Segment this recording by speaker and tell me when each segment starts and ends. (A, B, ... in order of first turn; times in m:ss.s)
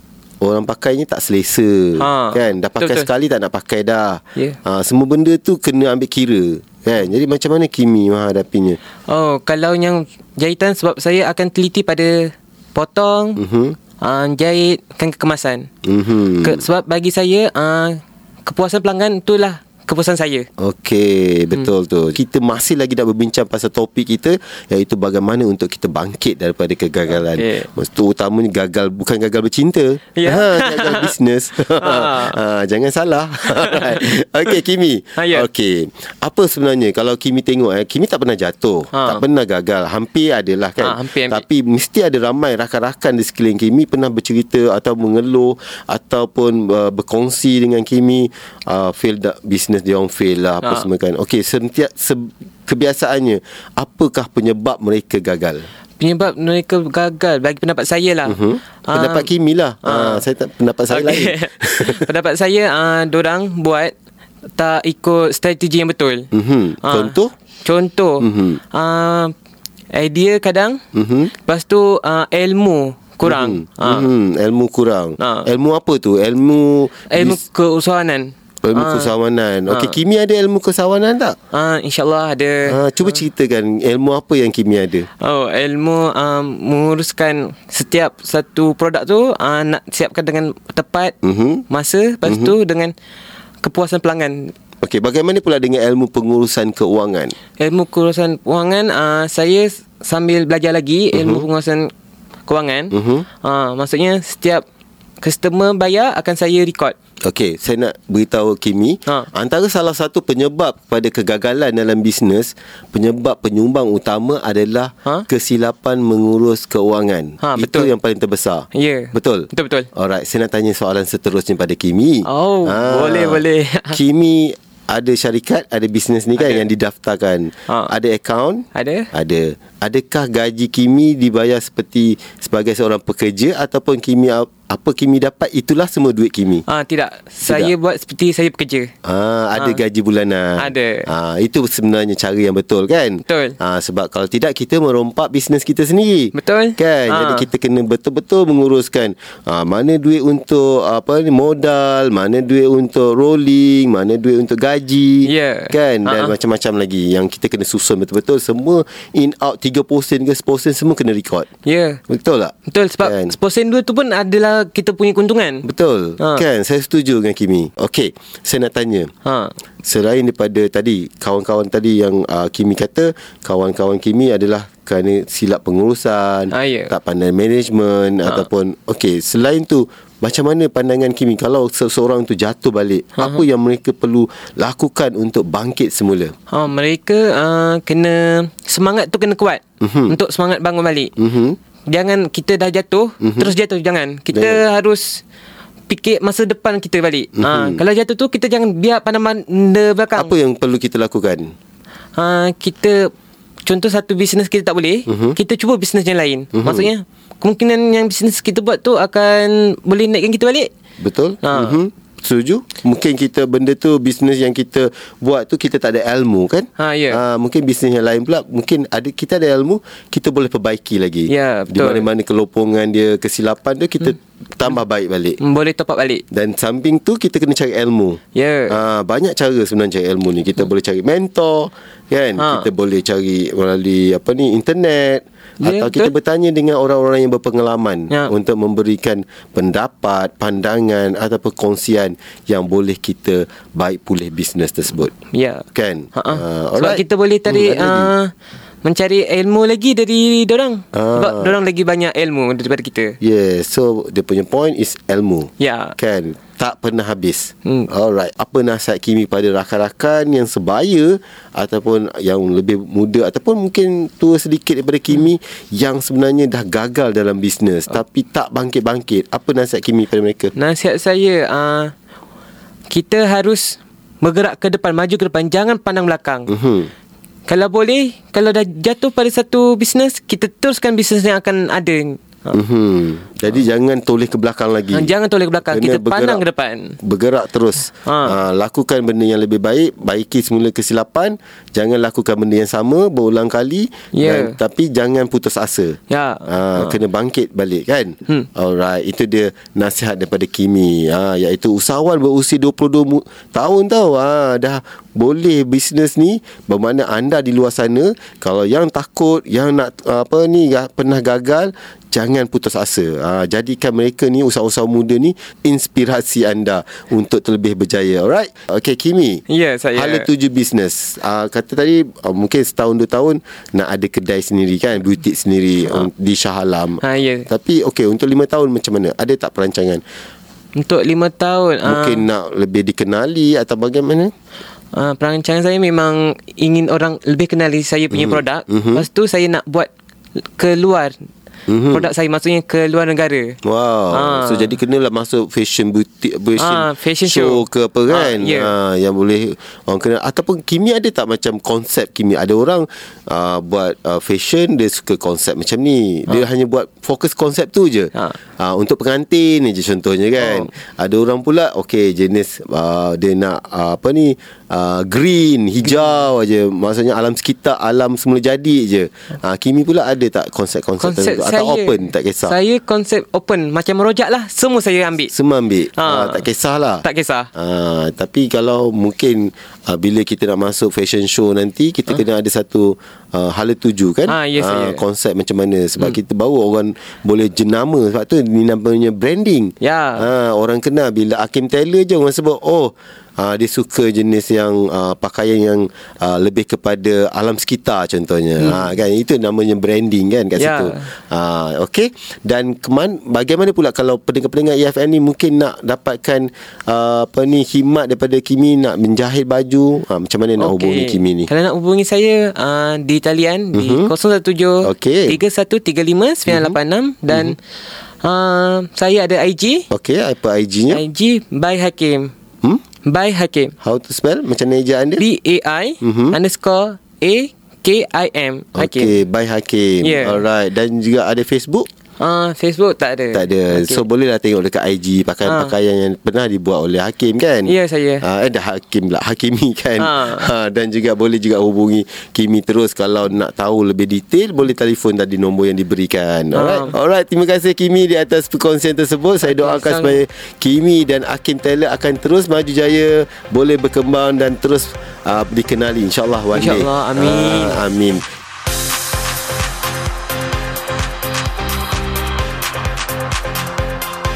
0:00.4-0:08.8 A
0:02.0-0:03.1 B
0:09.1-0:13.4 B
0:13.4-0:13.8 A
0:13.9-0:15.7 B
0:15.8-0:16.6 A
0:16.4-0:20.5 B
0:20.6-0:55.6 A
0:27.1-0:27.7 B
0:30.1-0:31.1 B
0:31.7-0:32.4 B
0:33.4-0:34.6 B
0:35.1-0:35.5 B
0:38.9-0:39.2 B
0:40.8-0:41.4 B
0:50.6-0:50.9 B
0:56.0-0:59.3 B
0:58.2-1:02.1 A
0:59.8-1:00.2 B
1:00.9-1:03.9 B
1:04.6-1:06.3 B
1:06.3-1:07.3 A
1:06.8-1:09.3 B
1:08.2-1:08.6 A
1:09.9-1:10.8 B
1:10.9-1:11.4 A
1:11.3-1:14.1 B
1:13.2-1:17.4 A
1:15.2-1:15.5 B
1:17.1-1:19.1 B
1:18.6-1:21.4 A
1:19.7-1:20.0 B
1:21.5-1:23.1 B
1:22.7-1:25.1 A
1:25.2-1:31.1 B
1:31.2-1:31.6 A
1:31.7-1:32.9 B
1:32.2-1:32.5 A
1:33.6-1:34.5 B
1:34.8-1:37.3 A
1:37.5-1:41.9 B
1:41.1-1:41.5 A
1:42.5-1:44.6 B
1:42.9-1:43.3 A
1:45.2-1:46.9 B
1:47.2-2:16.6 A
1:57.4-1:57.9 B
1:58.7-1:59.9 B
2:02.2-2:04.0 B
2:06.4-2:06.7 B
2:07.7-2:07.9 B
2:08.7-2:09.1 B
2:16.7-2:18.9 B
2:17.5-2:17.7 A
2:19.0-2:41.5 A
2:19.6-2:19.8 B
2:20.6-2:21.1 B
2:23.2-2:23.6 B
2:26.3-2:27.5 B
2:35.2-2:36.3 B
2:41.6-2:42.0 B
2:42.1-2:43.3 A
2:42.6-2:45.6 B
2:45.6-2:49.1 A
2:46.2-2:46.4 B
2:49.2-2:49.5 B
2:49.8-3:06.3 A
2:56.5-2:56.9 B
3:03.2-3:03.4 B
3:06.5-3:11.1 B
3:09.8-3:10.2 A
3:11.2-3:11.6 A
3:11.9-3:15.2 B
3:13.2-3:13.5 A
3:14.3-3:14.6 A
3:15.9-3:20.3 B
3:17.3-3:17.8 A
3:20.2-3:21.5 A
3:22.2-3:23.1 B
3:23.6-3:30.7 B
3:25.1-3:25.4 A
3:26.5-3:26.9 A
3:31.0-3:45.4 A
3:31.4-3:31.8 B
3:36.8-3:37.2 B
3:41.3-3:42.1 B
3:45.4-3:46.2 B
3:46.3-4:05.2 A
3:48.3-3:48.8 B
3:52.4-3:52.7 B
3:55.6-3:56.1 B
3:58.1-3:58.3 B
4:05.2-4:08.3 B
4:05.7-4:08.1 A
4:08.8-4:13.2 B
4:10.9-4:11.6 A
4:13.2-4:30.5 A
4:15.6-4:16.0 B
4:17.6-4:17.9 B
4:30.5-4:31.9 B
4:32.9-4:36.5 B
4:36.5-4:36.9 A
4:37.5-4:42.6 B
4:42.5-4:45.1 A
4:44.9-4:47.0 B
4:45.6-4:46.4 A
4:47.0-5:19.4 A
4:47.9-4:48.4 B
4:54.1-4:54.6 B
4:56.1-4:57.0 B
5:19.5-5:20.3 B
5:19.9-5:30.0 A
5:27.0-5:27.5 B
5:30.7-5:32.3 B
5:31.8-5:34.3 A
5:34.9-5:39.9 B
5:38.1-5:39.0 A
5:40.4-5:41.2 B
5:41.7-5:42.1 A
5:41.9-5:43.6 B
5:43.6-6:12.6 A
5:44.1-5:44.8 B
5:46.6-5:48.7 B
5:58.1-5:58.4 B
6:00.4-6:00.7 B
6:05.8-6:06.2 B
6:11.0-6:15.3 B
6:15.3-6:51.5 A
6:16.0-6:16.5 B
6:17.0-6:17.5 B
6:24.3-6:25.0 B
6:29.8-6:30.3 B
6:38.6-6:39.0 B
6:40.6-6:41.1 B
6:50.6-6:57.6 B
6:53.7-6:54.1 A
6:54.8-6:55.4 A
6:56.5-6:56.8 A
6:57.3-6:57.6 A
6:58.2-6:59.9 B
6:59.9-7:01.0 A
7:00.9-7:02.3 B
7:02.6-7:02.9 A
7:03.0-7:03.8 B
7:03.8-7:05.3 A
7:05.2-7:09.2 B
7:06.0-7:06.4 A
7:08.7-7:11.9 A
7:10.0-7:10.4 B
7:12.2-7:14.0 B
7:13.3-7:38.3 A
7:15.4-7:15.7 B
7:17.6-7:18.2 B
7:20.0-7:20.5 B
7:26.5-7:27.0 B
7:29.4-7:30.2 B
7:36.5-7:37.8 B